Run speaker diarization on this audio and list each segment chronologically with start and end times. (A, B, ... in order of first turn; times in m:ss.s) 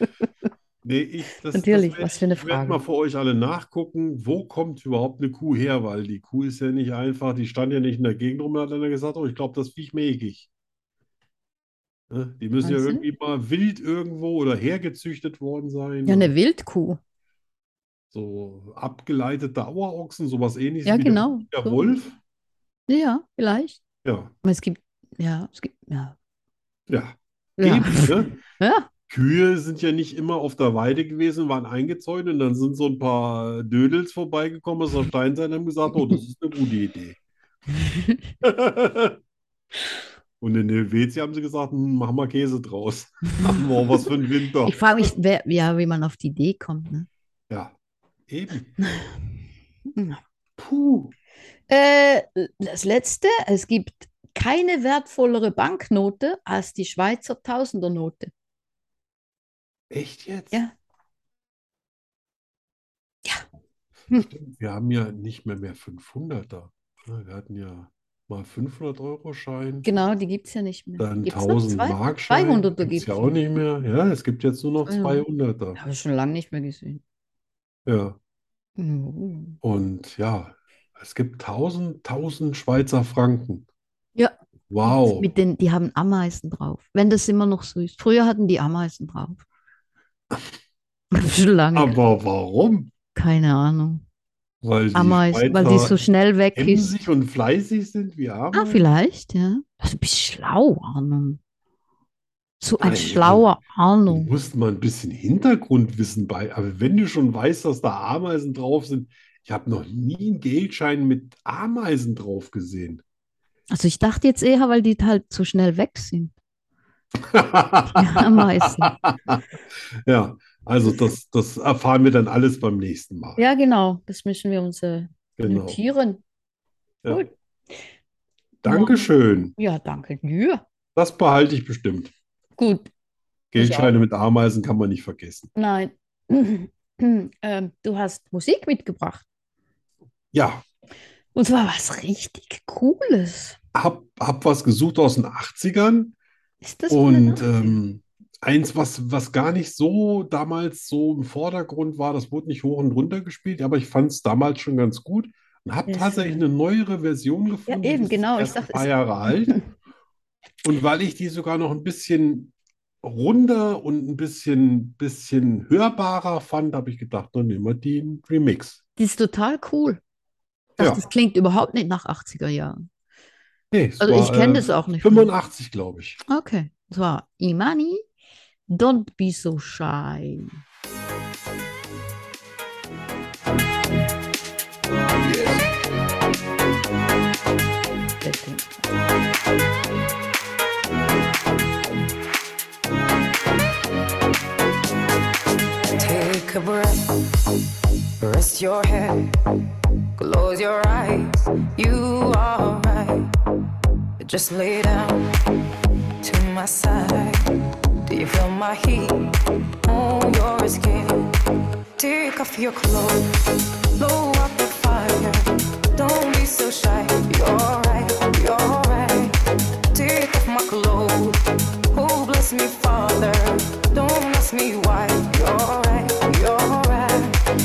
0:00.8-0:10.5 A
0:01.5-0:02.8 B
0:12.1-0:16.3 A
0:12.6-0:13.0 B
0:16.0-0:17.0 B
0:18.1-0:22.2 A
0:20.8-0:21.9 B
0:22.9-0:23.8 B
0:24.0-0:24.3 A
0:24.4-0:26.2 B
0:26.9-0:28.3 A
0:27.6-0:28.9 B
0:29.1-0:37.2 A
0:37.8-0:38.2 B
0:38.4-0:39.2 A
0:40.4-0:44.8 A
0:44.6-0:47.1 B
0:48.3-0:48.7 A
0:49.9-0:50.2 B
0:50.6-0:51.1 A
0:51.7-0:58.3 B
0:59.9-1:00.6 A
1:04.2-1:09.9 A
1:09.8-1:13.4 B
1:11.0-1:15.8 A
1:14.8-1:15.2 B
1:15.8-1:17.0 B
1:17.8-1:18.2 A
1:18.8-1:19.6 B
1:19.6-1:23.6 A
1:24.7-1:25.3 A
1:24.8-1:29.4 B
1:31.1-1:32.0 B
1:31.7-1:32.9 A
1:33.1-1:34.0 B
1:34.6-1:36.0 A
1:34.9-1:36.9 B
1:36.5-1:38.9 A
1:38.5-1:41.4 B
1:42.6-1:44.3 B
1:42.8-1:43.4 A
1:44.1-1:53.0 A
1:53.7-1:56.3 B
1:57.2-1:59.4 A
1:57.9-1:59.0 B
2:00.0-2:03.4 A
2:03.4-2:06.2 B
2:05.4-2:05.8 A
2:07.1-2:07.8 B
2:08.6-2:09.5 A
2:08.6-2:10.6 B
2:11.0-2:12.1 A
2:12.6-2:12.9 B
2:13.5-2:15.5 A
2:13.6-2:13.9 B
2:15.5-2:19.2 B
2:20.3-2:20.6 A
2:21.3-2:23.6 B
2:23.7-2:26.1 A
2:26.6-2:27.8 B
2:26.9-2:39.6 A
2:35.9-2:36.4 B
2:37.7-2:38.9 B
2:40.6-2:48.8 A
2:49.0-2:50.0 B
2:50.8-2:52.8 B
2:53.7-2:56.2 A
2:54.0-2:55.3 B
2:56.3-2:58.0 B
2:58.7-3:00.6 B
3:05.2-3:05.6 A
3:08.2-3:08.7 B
3:16.0-3:17.1 C
3:18.2-3:19.3 C
3:20.2-3:23.3 C
3:24.2-3:25.3 C
3:26.2-3:27.4 C
3:28.0-3:29.3 C
3:29.8-3:31.3 C
3:32.0-3:33.4 C
3:34.0-3:39.4 C
3:39.9-3:47.4 C